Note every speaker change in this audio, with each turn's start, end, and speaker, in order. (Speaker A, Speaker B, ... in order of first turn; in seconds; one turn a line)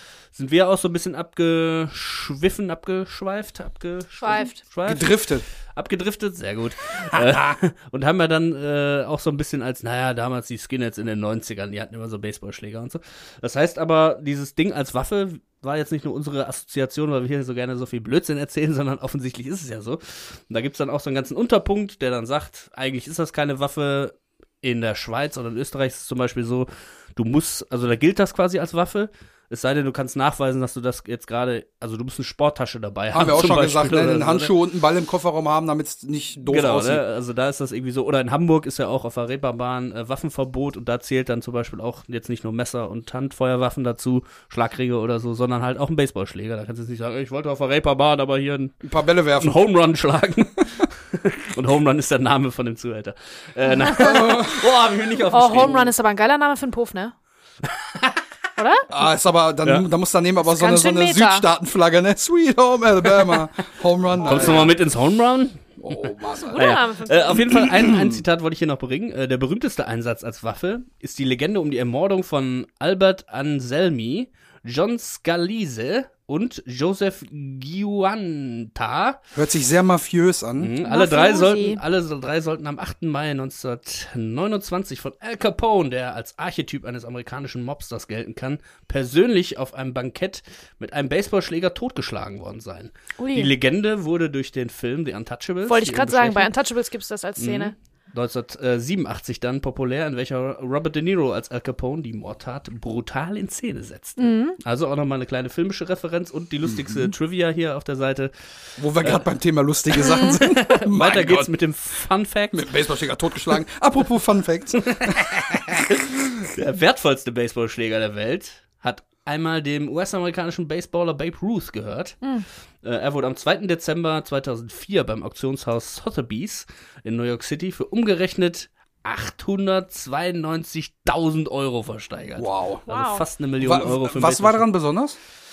Speaker A: 0.3-5.2
Speaker B: 4.2-4.6
Speaker C: 4.8-5.5
Speaker A: 5.7-34.5
Speaker C: 7.1-7.4
Speaker C: 33.1-37.0
Speaker A: 36.5-48.8
Speaker C: 48.8-49.6
Speaker A: 49.4-55.8
Speaker B: 53.7-54.3
Speaker C: 54.0-54.7
Speaker B: 55.3-57.1
Speaker A: 57.6-58.2
Speaker B: 58.6-58.9
Speaker C: 58.9-64.7
Speaker B: 60.4-61.4
Speaker A: 64.2-79.2
Speaker B: 64.3-64.6
Speaker C: 65.8-66.7
Speaker B: 66.4-67.4
Speaker C: 67.4-68.2
Speaker C: 79.3-80.7
Speaker A: 80.6-96.5
Speaker B: 80.8-81.8
Speaker B: 93.2-93.5
Speaker B: 95.7-97.7
Speaker A: 97.4-108.3
Speaker B: 104.2-104.6
Speaker C: 106.7-107.1
Speaker C: 108.8-111.5
Speaker A: 109.9-112.7
Speaker B: 110.0-110.4
Speaker C: 112.5-115.9
Speaker A: 114.8-122.2
Speaker A: 122.8-134.7
Speaker C: 132.4-132.8
Speaker B: 132.9-133.2
Speaker C: 133.6-135.2